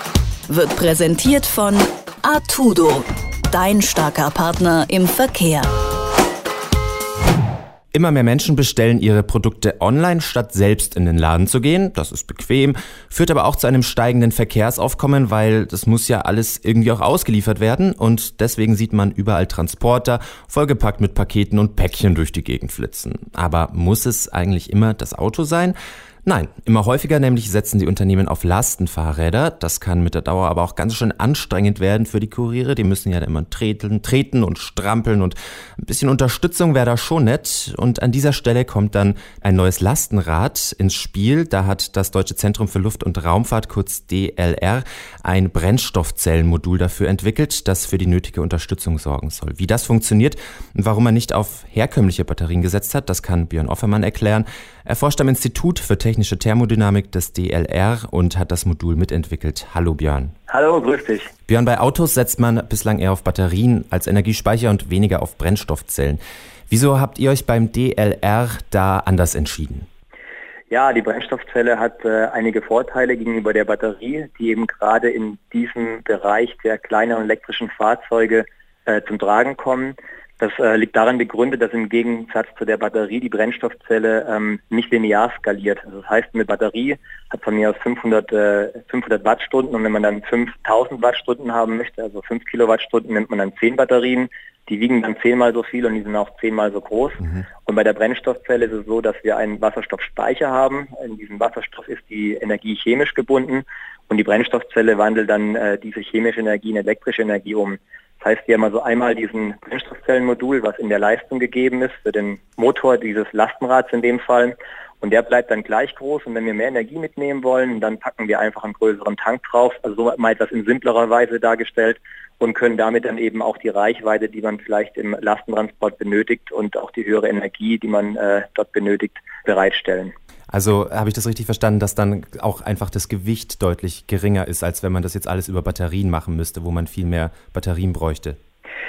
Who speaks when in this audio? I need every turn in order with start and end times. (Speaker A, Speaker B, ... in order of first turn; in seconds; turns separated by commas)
Speaker A: 0.5-5.7, Speaker B: 7.9-60.3, Speaker C: 60.5-61.3, Speaker B: 61.5-69.9, Speaker C: 70.7-130.1, Speaker B: 130.5-138.4